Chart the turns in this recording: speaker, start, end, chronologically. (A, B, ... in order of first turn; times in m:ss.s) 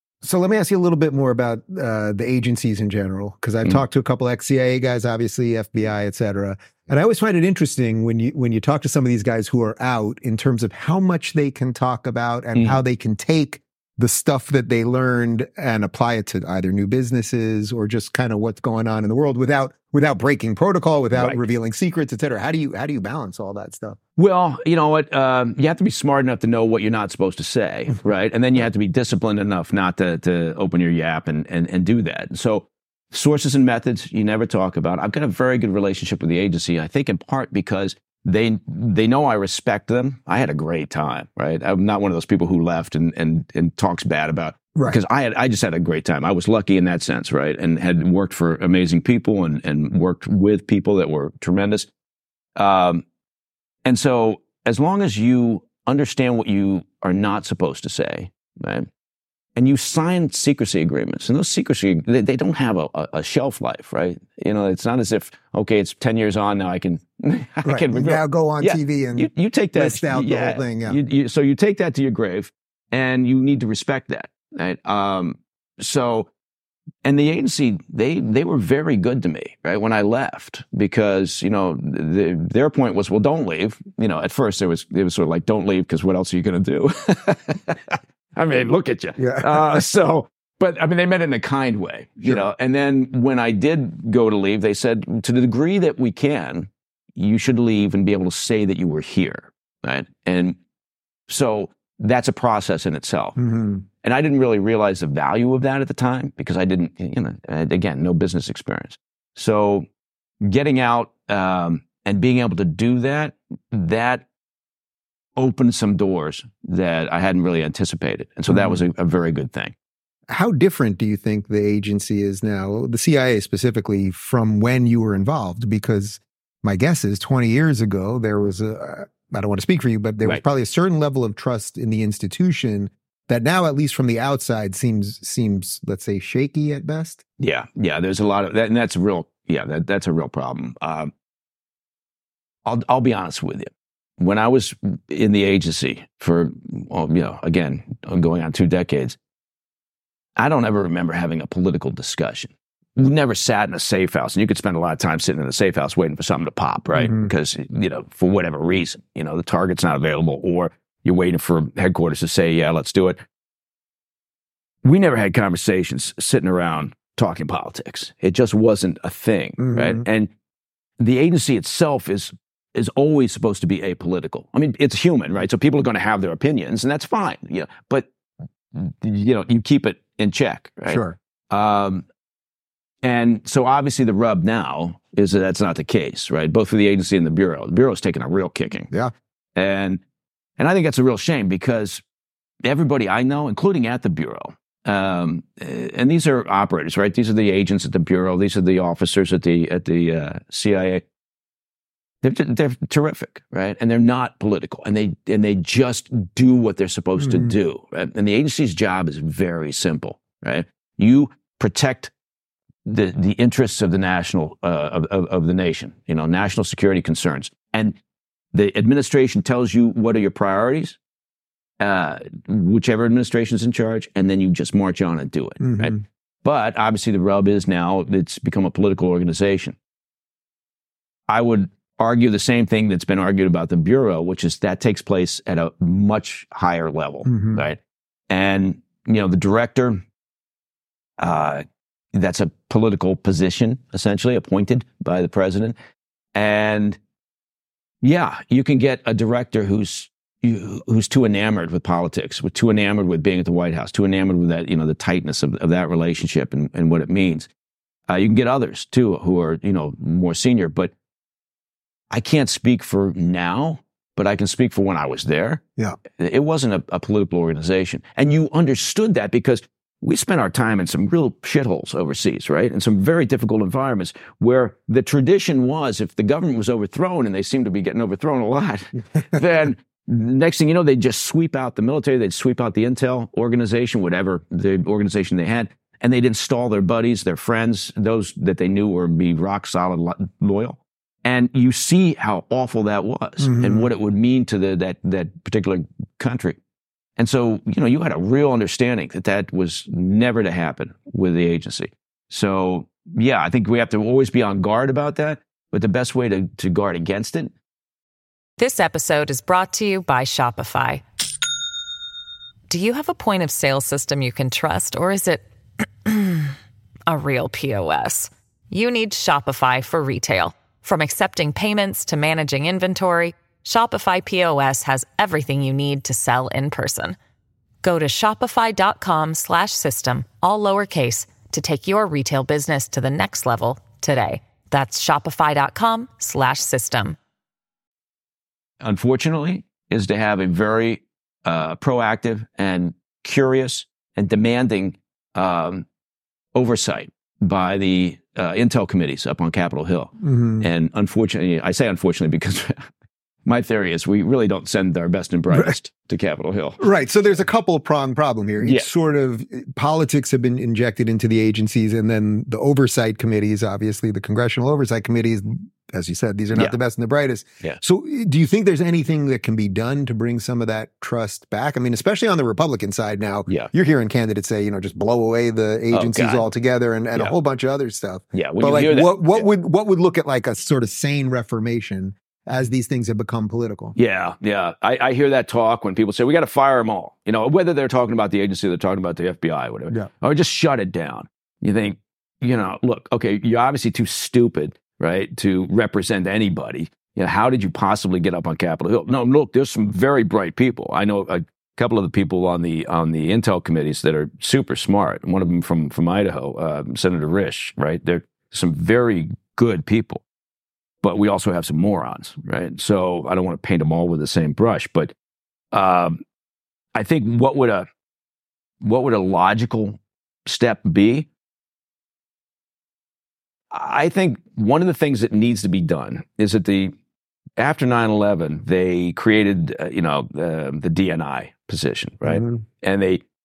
0:00.2-0:24.0 A
0:24.2-0:51.9 B
0:52.6-0:53.0 B
0:53.8-0:58.9 B
0:59.6-1:16.3 B
1:07.6-1:11.0 A
1:17.0-1:40.6 B
1:29.2-1:29.6 A
1:41.3-1:43.4 B
1:43.4-1:43.8 A
1:44.0-1:49.8 B
1:50.4-1:54.2 B
1:55.4-1:59.7 B
1:58.5-1:58.8 A
2:00.3-2:17.2 A
2:17.4-2:21.1 B
2:22.6-2:29.2 B
2:30.4-2:43.2 B
2:37.0-2:37.3 A
2:44.8-2:50.3 B
2:49.6-2:50.0 A
2:51.0-2:58.1 B
2:58.7-3:02.0 B
3:00.8-3:01.2 A
3:03.0-3:08.9 B
3:09.6-3:10.0 B
3:10.6-3:12.0 B
3:12.6-3:21.0 B
3:22.2-3:32.1 B
3:27.2-3:27.5 A
3:32.8-3:38.0 B
3:38.5-3:41.0 B
3:41.8-3:49.8 B
3:45.6-3:46.0 A
3:51.3-3:57.8 B
3:57.2-3:57.6 A
3:58.3-4:00.0 B
4:01.2-4:05.7 B
4:06.3-4:07.0 B
4:08.0-4:17.5 B
4:18.1-4:20.9 B
4:22.1-4:25.6 B
4:26.2-4:56.6 B
4:53.4-4:53.9 A
4:57.2-5:07.5 B
5:08.6-5:11.0 C
5:12.7-5:15.4 C
5:16.0-5:16.5 C
5:17.1-5:27.2 C
5:27.8-5:37.2 C
5:38.8-5:45.8 B
5:46.5-5:52.9 B
5:50.2-5:50.7 A
5:53.4-5:56.8 B
5:56.8-6:23.9 A
5:58.6-5:58.9 B
6:15.9-6:16.4 B
6:18.3-6:19.4 B
6:24.0-6:50.2 B
6:51.0-6:55.1 B
6:55.7-6:56.2 B
6:56.9-6:57.8 B
6:58.8-7:01.3 B
7:03.7-7:06.9 B
7:07.6-7:13.2 B